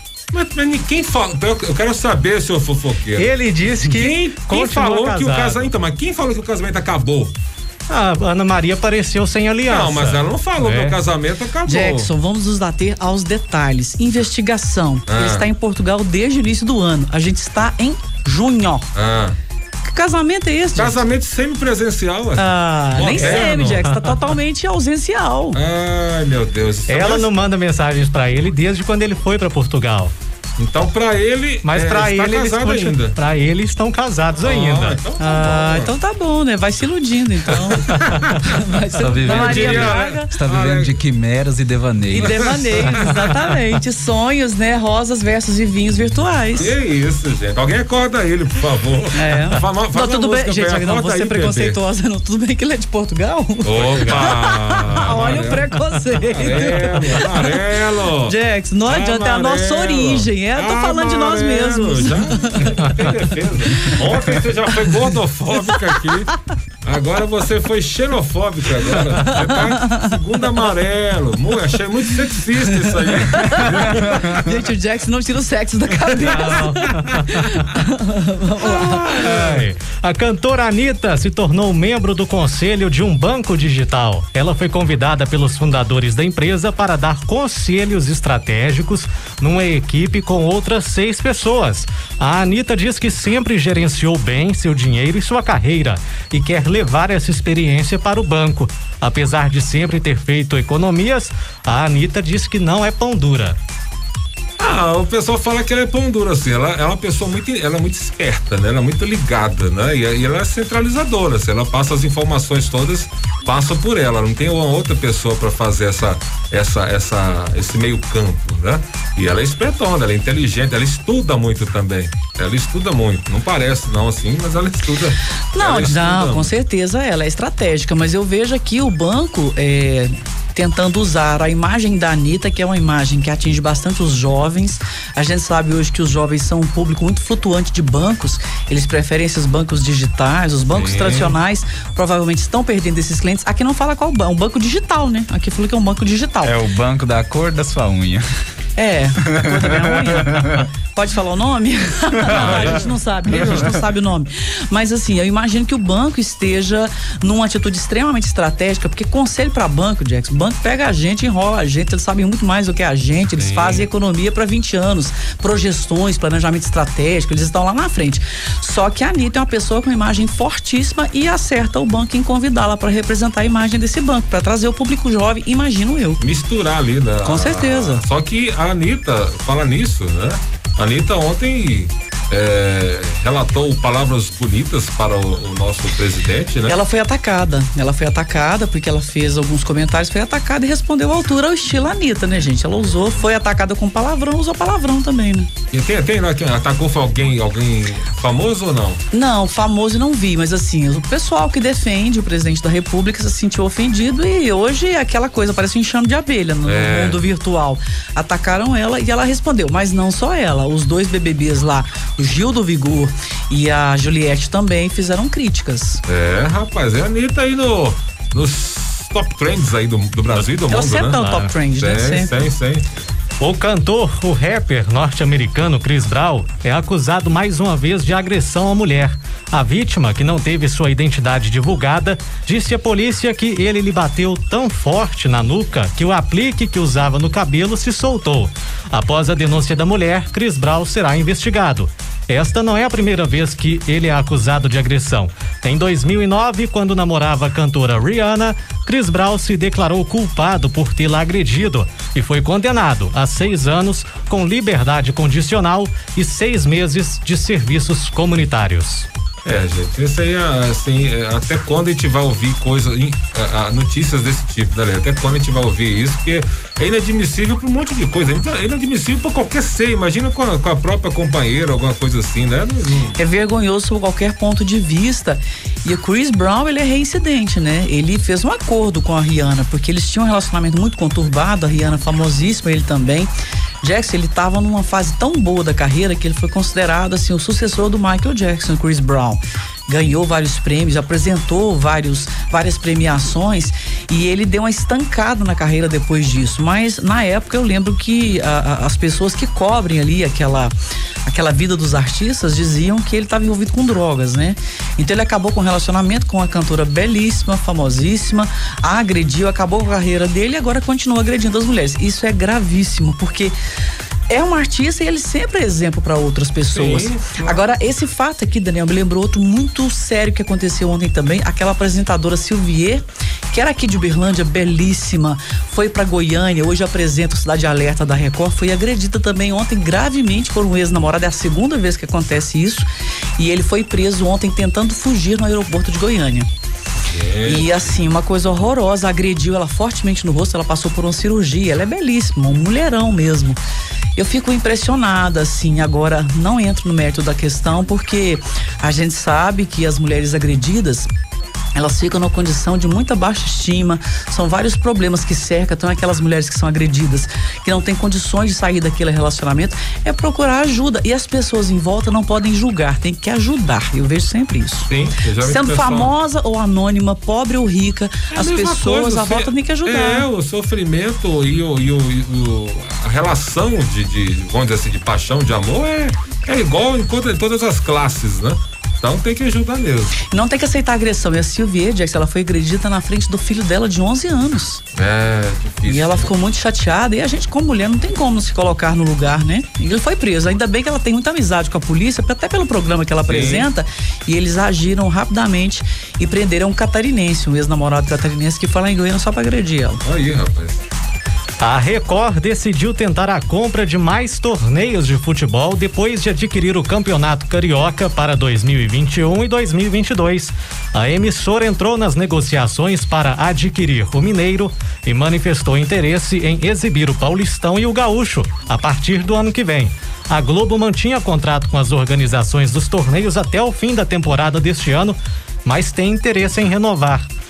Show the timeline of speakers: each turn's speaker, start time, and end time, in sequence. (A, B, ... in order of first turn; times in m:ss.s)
0:00.3-0:03.3 A
0:03.2-0:05.7 B
0:03.8-0:07.4 A
0:07.9-0:11.0 B
0:09.7-0:12.1 A
0:11.7-0:18.9 C
0:15.1-0:15.5 A
0:18.9-0:19.4 A
0:19.8-0:21.0 C
0:20.8-0:23.8 A
0:22.4-0:25.6 C
0:23.1-0:24.2 B
0:25.5-0:27.3 A
0:26.9-0:30.1 B
0:30.6-0:33.2 A
0:31.6-0:35.0 B
0:34.4-0:35.9 A
0:35.2-0:40.4 C
0:37.5-0:38.6 A
0:39.0-0:42.6 D
0:39.2-0:41.0 A
0:42.1-0:46.7 C
0:42.2-0:43.4 A
0:46.6-0:51.8 A
0:49.1-0:57.5 C
0:53.6-0:58.4 A
0:53.9-0:54.3 B
0:58.3-1:03.1 C
0:58.9-1:06.3 A
1:06.8-1:14.5 A
1:09.5-1:10.1 C
1:13.1-1:19.2 C
1:16.0-1:17.2 A
1:16.3-1:17.2 B
1:18.6-1:19.7 A
1:19.1-1:43.6 B
1:44.6-2:06.5 A
2:05.5-2:26.6 C
2:20.7-2:21.4 A
2:26.4-2:28.2 D
2:28.8-2:56.2 C
2:29.2-2:30.7 D
2:32.2-2:32.8 D
2:32.3-2:33.8 A
2:33.4-2:33.7 D
2:43.4-2:43.9 A
2:56.2-3:06.8 A
2:57.2-2:58.0 C
3:06.7-3:15.5 C
3:15.7-3:19.0 A
3:19.1-3:36.0 C
3:26.6-3:27.2 A
3:36.1-3:41.2 A
3:40.7-3:42.4 C
3:41.2-3:41.5 B
3:41.7-3:42.9 A
3:43.4-4:19.1 B
4:19.4-4:33.2 A
4:33.2-4:43.3 C
4:43.8-5:00.7 C
5:01.3-5:13.6 C
5:14.3-5:36.5 C
5:16.7-5:17.6 A
5:37.0-5:38.0 A
5:37.4-5:43.6 C
5:44.2-5:51.1 C
5:51.8-6:10.3 C
6:04.9-6:06.1 A
6:08.3-6:20.2 A
6:20.2-6:24.8 C
6:25.0-6:26.3 A
6:25.9-6:40.0 C
6:33.2-6:33.7 A
6:40.0-6:40.8 A
6:41.6-7:07.3 B